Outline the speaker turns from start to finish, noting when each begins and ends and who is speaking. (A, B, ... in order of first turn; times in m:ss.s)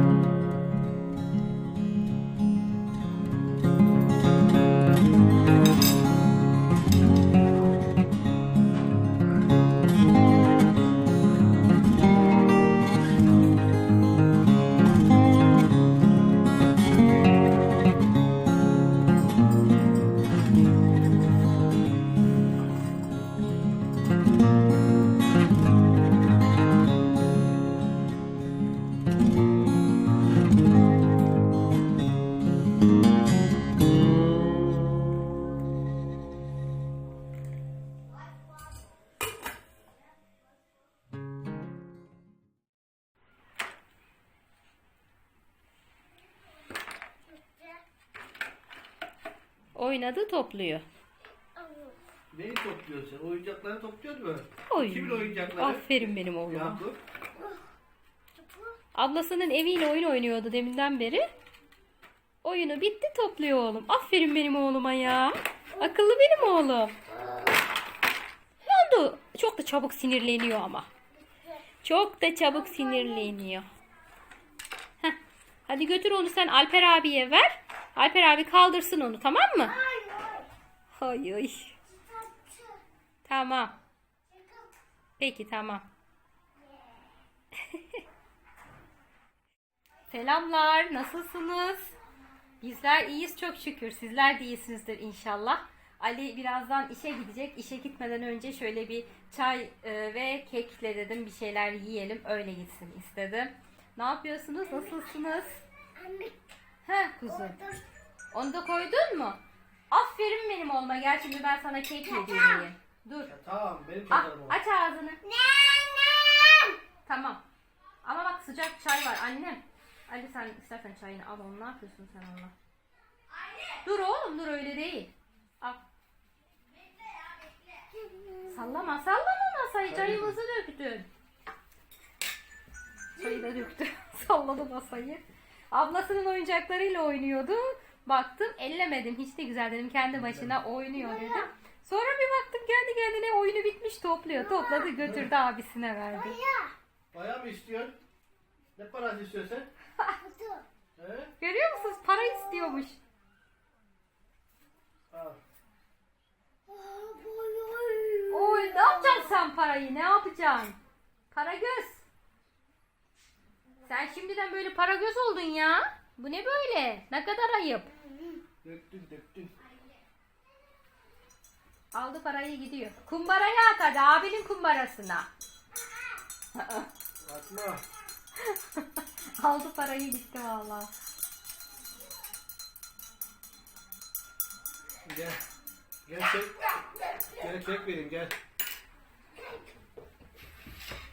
0:47.3-0:47.8 A
0:49.7-0:50.8 B
0:51.5-0:52.0 A
0:52.3-0:57.0 C
0:54.7-0:56.8 B
0:58.4-0:58.8 A
0:58.9-1:01.2 B
1:02.4-1:07.0 B
1:08.6-1:10.9 B
1:11.8-1:13.6 B
1:12.5-1:13.4 A
1:15.0-1:19.7 B
1:19.7-1:20.5 A
1:20.9-1:21.7 B
1:21.9-1:22.8 A
1:23.2-1:23.8 B
1:24.3-1:24.7 A
1:25.2-1:25.9 B
1:26.6-1:27.2 A
1:27.7-1:28.0 B
1:30.1-1:31.9 B
1:32.6-1:45.6 B
1:46.0-1:46.4 A
1:46.8-1:47.6 B
1:47.3-1:47.8 A
1:48.3-1:53.3 B
1:52.1-1:52.7 A
1:53.2-1:54.6 C
1:54.1-1:55.2 B
1:55.2-1:56.8 A
1:57.0-1:57.4 B
1:58.0-2:02.5 B
2:03.8-2:05.8 B
2:07.9-2:08.6 A
2:08.5-2:11.1 B
2:09.9-2:10.4 C
2:13.2-2:26.4 B
2:13.3-2:13.6 A
2:20.2-2:20.6 C
2:21.0-2:21.5 A
2:24.3-2:25.0 A
2:25.0-2:25.3 C
2:26.1-2:26.7 A
2:27.1-2:28.0 C
2:28.8-2:29.7 C
2:30.2-2:30.6 A
2:31.0-2:31.3 C
2:31.4-2:33.0 B
2:32.1-2:32.8 A
2:35.1-2:35.4 C
2:36.7-2:39.4 A
2:38.3-2:40.8 B
2:41.3-2:42.0 B
2:43.8-2:47.9 B
2:47.9-2:48.4 A
2:48.6-2:49.5 C
2:51.9-2:55.3 B
2:56.5-2:56.9 B
2:57.2-2:57.8 C
2:58.4-3:00.9 B
3:05.0-3:05.4 C
3:06.0-3:06.6 C
3:07.4-3:08.4 C